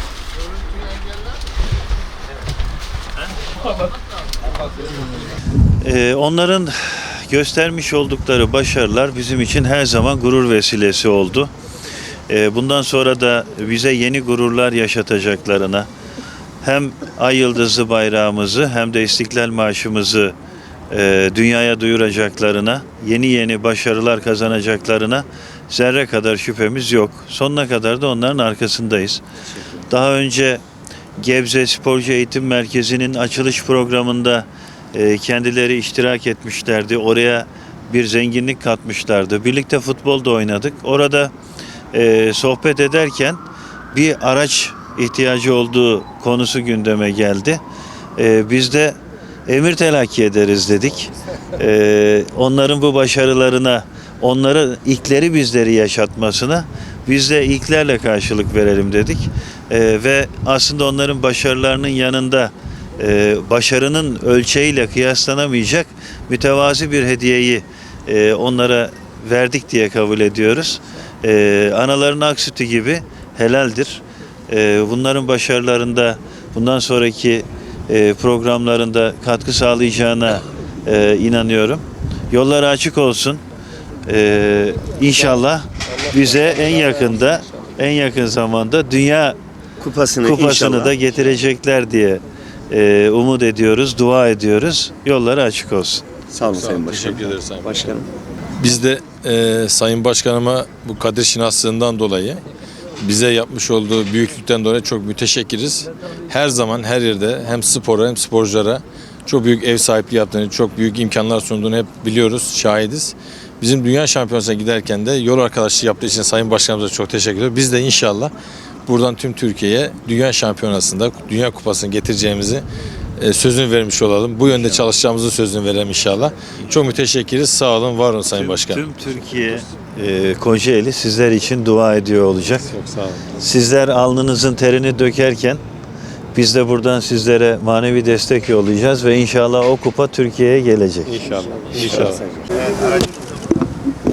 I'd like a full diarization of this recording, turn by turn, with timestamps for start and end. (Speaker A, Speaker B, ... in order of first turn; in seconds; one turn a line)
Speaker A: 5.8-11.5
Speaker A: 12.3-15.9
Speaker A: 16.6-20.3
Speaker A: 20.9-29.2
Speaker A: 29.9-30.6
Speaker A: 31.2-41.3
Speaker A: 41.9-47.6
Speaker A: 48.2-83.4
Speaker A: 84.0-89.4
Speaker B: 89.8-90.9
Speaker A: 90.2-96.0
Speaker B: 96.3-98.1
Speaker C: 96.4-97.8
Speaker C: 98.6-102.4
Speaker C: 103.0-118.3
Speaker C: 118.8-122.6
Speaker C: 123.2-128.8
Speaker A: 128.3-132.7
Speaker C: 132.7-133.2
Speaker A: 133.4-135.6
Speaker A: 136.3-141.1
Speaker C: 141.1-142.4